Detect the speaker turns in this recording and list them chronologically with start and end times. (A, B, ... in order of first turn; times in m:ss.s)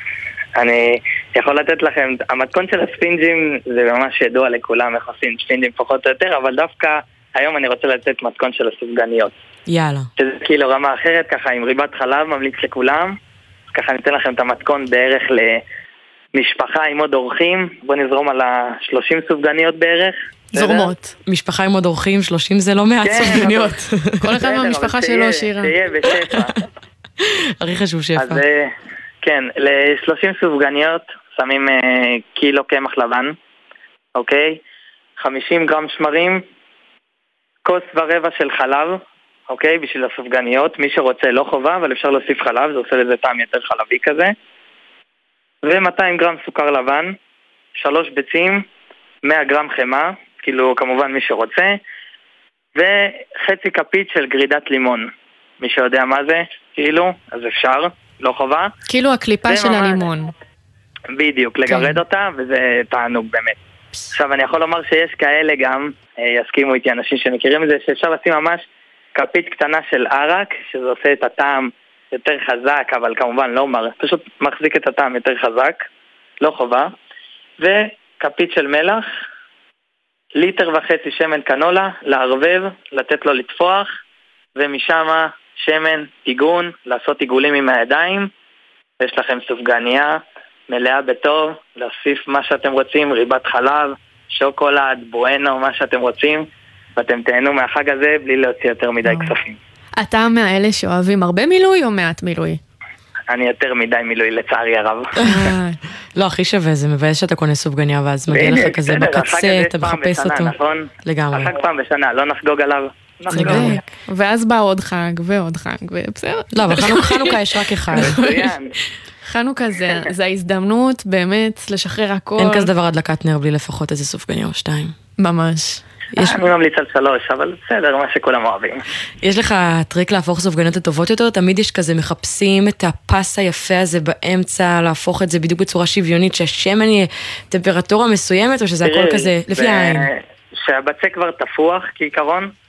0:00.6-0:09.3 A
0:09.7-0:10.1 B
0:10.2-0:13.1 A
0:13.7-0:15.6 A
0:16.3-0:20.9 A
0:20.5-0:21.1 C
0:21.2-0:24.3 B
0:23.0-0:23.7 A
0:24.2-0:25.7 C
0:24.4-0:26.5 A
0:27.6-0:28.4 B
0:28.2-0:28.7 A
0:29.2-0:33.3 A
0:34.2-0:34.6 A
0:35.2-0:36.4 A
0:37.6-0:44.3 A
0:45.6-0:47.1 A
0:47.8-0:48.6 A
0:49.2-0:51.8 A
0:52.8-0:55.1 A
0:55.6-0:58.7 A
0:58.9-1:00.3 C
0:59.5-1:00.0 A
1:01.1-1:03.6 A
1:01.7-1:02.0 C
1:04.1-1:08.6 A
1:09.1-1:15.8 A
1:16.4-1:16.9 A
1:17.6-1:19.0 A
1:20.4-1:23.9 A
1:24.6-1:28.3 A
1:29.0-1:30.2 A
1:30.7-1:36.4 A
1:37.0-1:39.6 A
1:39.0-1:39.3 C
1:40.0-1:42.6 C
1:43.3-1:45.1 A
1:45.2-1:45.8 C
1:46.2-1:50.5 B
1:48.3-1:53.8 A
1:51.0-1:51.5 B
1:53.3-1:53.8 B
1:53.3-1:57.4 C
1:56.5-1:58.2 B
1:57.9-1:58.5 C
1:58.0-1:58.7 A
1:59.3-2:02.7 C
2:02.4-2:04.9 B
2:05.2-2:05.8 C
2:06.1-2:06.4 B
2:06.2-2:08.8 A
2:09.2-2:20.0 B
2:18.8-2:22.5 A